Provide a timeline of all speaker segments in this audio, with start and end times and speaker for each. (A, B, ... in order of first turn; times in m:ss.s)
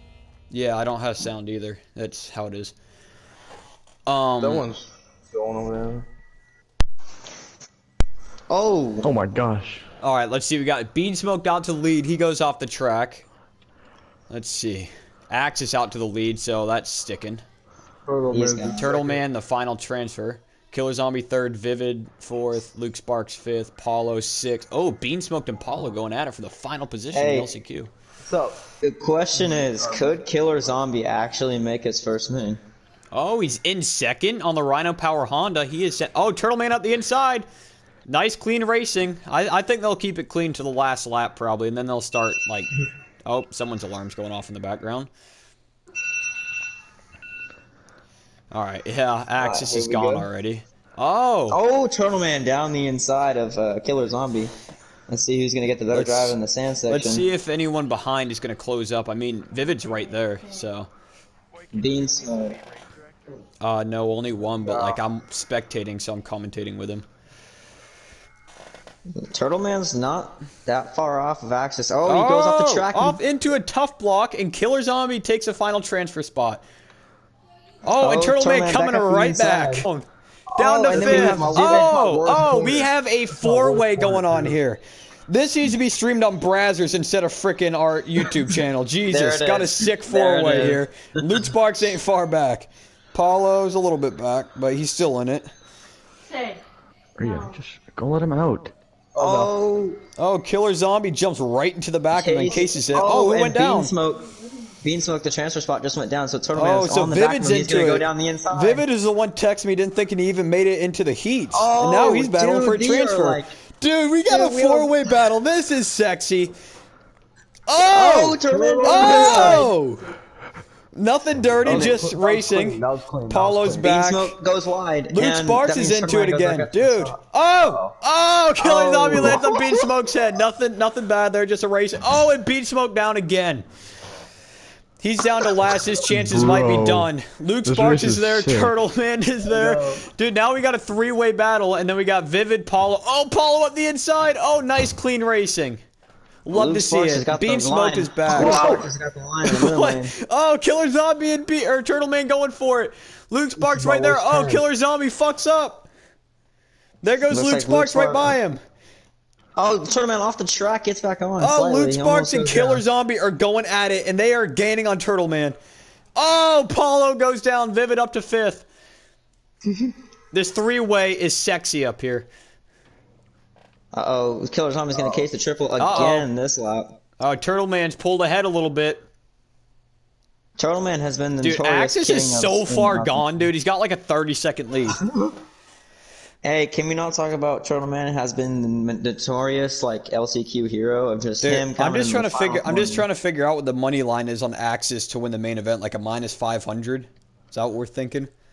0:00.5-0:02.7 A
0:04.1-0:04.6 A
0:04.4-0:06.0 B
0:08.5-0:09.1 C
0:09.0-0:09.8 D
0:10.0-0:13.2 A
0:14.3-0:17.4 A
0:18.0-0:19.2 B
0:18.3-0:18.8 C
0:18.7-0:27.9 A
0:27.1-0:27.5 C
0:28.3-0:28.5 B
0:28.7-0:32.6 C
0:29.8-0:30.1 B
0:33.1-0:37.4 A
0:38.1-0:42.7 A
0:43.2-0:45.1 A
0:48.5-0:51.6 A
0:49.4-0:50.3 C
0:51.5-0:54.5 C
0:55.1-0:57.2 C
0:55.9-0:56.4 A
0:56.9-1:00.9 A
1:01.7-1:02.6 C
1:03.6-1:07.0 A
1:04.6-1:05.0 B
1:09.2-1:13.2 C
1:12.0-1:16.6 A
1:17.8-1:20.0 A
1:18.0-1:19.8 C
1:20.5-1:22.8 C
1:20.6-1:35.4 A
1:20.9-1:22.8 B
1:23.4-1:24.4 B
1:29.1-1:30.8 C
1:37.2-1:38.7 D
1:39.2-1:40.0 C
1:39.2-1:39.5 A
1:40.2-1:43.9 A
1:42.1-1:44.3 C
1:44.8-1:48.8 C
1:46.5-1:56.5 A
1:51.5-1:53.5 C
1:54.3-1:54.9 C
1:57.7-2:00.0 A
1:57.9-1:59.7 C
1:58.5-1:59.6 B
2:00.9-2:04.3 A
2:01.6-2:02.2 C
2:01.6-2:03.7 B
2:03.7-2:07.9 C
2:05.1-2:13.6 A
2:08.6-2:09.5 C
2:15.0-2:25.8 A
2:16.1-2:17.1 D
2:17.6-2:18.7 D
2:19.5-2:20.0 C
2:26.4-2:28.9 A
2:26.5-2:30.1 C
2:29.4-2:35.9 A
2:33.7-2:34.6 C
2:34.0-2:34.4 B
2:37.0-2:38.6 A
2:37.3-2:38.3 C
2:39.6-2:42.8 C
2:41.4-2:45.5 A
2:46.2-2:48.6 A
2:50.3-2:52.3 A
2:53.9-2:56.9 C
2:55.8-2:56.3 A
2:57.2-2:59.0 A
3:00.6-3:03.4 C
3:01.4-3:05.0 A
3:05.1-3:05.3 C
3:06.4-3:13.1 C
3:11.4-3:18.3 A